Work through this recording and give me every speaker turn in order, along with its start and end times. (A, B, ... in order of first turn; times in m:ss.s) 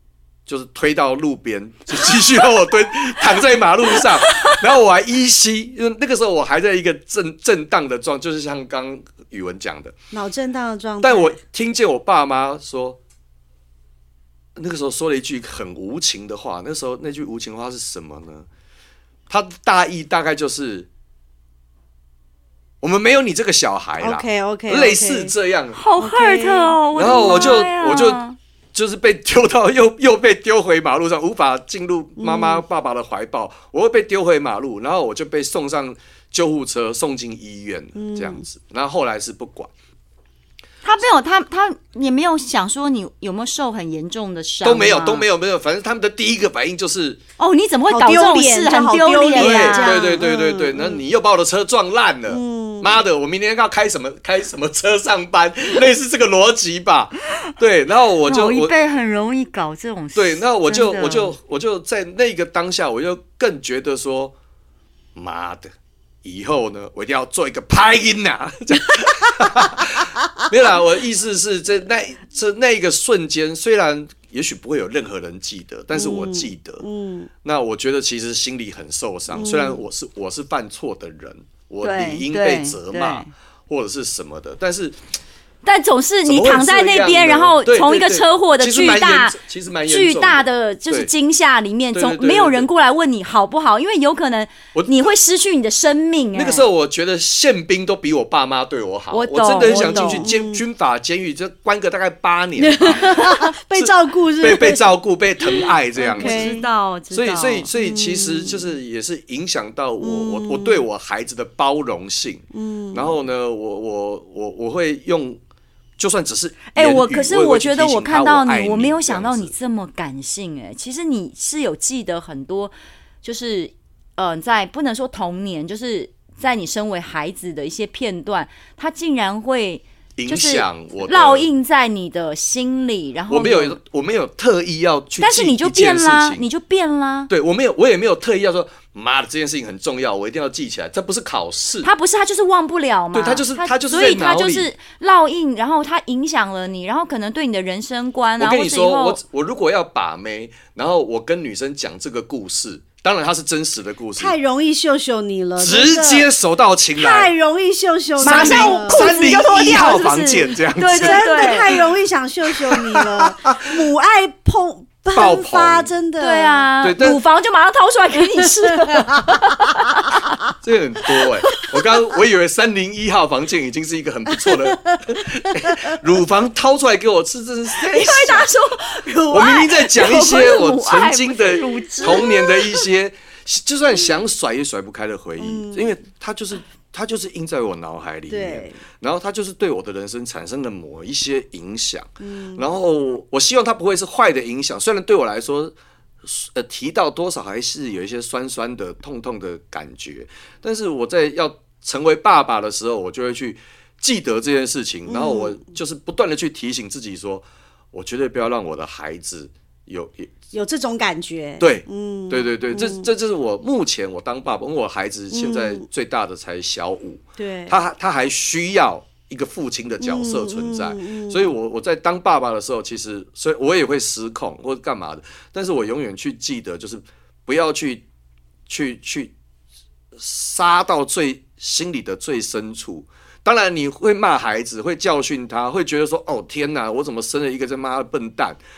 0:00.5-0:10.0 A
0:04.0-0:04.6 B
0:10.1-0:11.4 C
0:11.0-0:13.0 A
0:14.6-0:18.5 A
0:19.3-0:20.9 A
0:22.8-0:25.8 A
0:24.0-0:25.3 C
0:25.8-0:28.4 B
0:26.0-0:27.7 C
0:27.0-0:28.2 A
0:28.7-0:39.7 A
0:32.2-0:32.6 C
0:38.0-0:38.4 C
0:40.8-0:45.3 B
0:44.6-0:47.2 A
0:47.4-0:50.0 B
0:47.9-0:51.0 C
0:49.4-0:58.7 A
0:52.3-0:53.0 C
0:58.3-1:01.4 B
1:00.2-1:04.3 A
1:05.2-1:05.7 A
1:06.2-1:16.8 A
1:15.9-1:17.3 C
1:17.4-1:25.0 A
1:19.3-1:19.8 C
1:21.8-1:23.3 B
1:25.6-1:36.7 B
1:26.3-1:31.1 A
1:31.9-1:32.7 A
1:34.7-1:35.1 A
1:36.3-1:46.6 A
1:39.1-1:40.3 B
1:39.6-1:40.6 C
1:42.6-1:44.9 C
1:45.4-1:46.6 C
1:46.0-1:47.7 B
1:47.1-1:55.4 A
1:47.8-1:48.7 C
1:50.0-1:50.8 C
1:52.5-1:53.1 C
1:56.0-1:59.5 A
1:56.7-2:13.8 B
2:10.2-2:11.5 A
2:13.3-2:16.4 A
2:15.2-2:17.3 B
2:17.3-2:21.9 A
2:21.8-2:29.2 B
2:23.1-2:24.7 A
2:28.4-2:34.4 A
2:34.2-2:36.3 C
2:35.6-2:37.3 A
2:37.0-2:39.4 C
2:38.2-2:41.8 A
2:38.2-2:41.8 B
2:40.9-2:46.7 C
2:42.6-2:43.7 A
2:45.1-2:45.9 A
2:46.2-2:50.4 B
2:46.8-2:47.2 A
2:48.6-2:49.4 C
2:50.6-2:58.5 A
2:54.5-2:55.0 C
2:55.6-2:55.8 C
2:57.8-3:02.5 B
2:59.3-3:30.3 A
3:02.0-3:02.5 C
3:05.4-3:05.9 C
3:08.3-3:08.8 C
3:12.2-3:12.6 C
3:25.1-3:25.6 C
3:30.5-3:33.1 C
3:31.6-3:48.0 A
3:35.3-3:35.8 C
3:37.4-3:37.8 C
3:40.0-3:41.5 C
3:48.7-3:49.3 A
3:50.2-3:58.6 A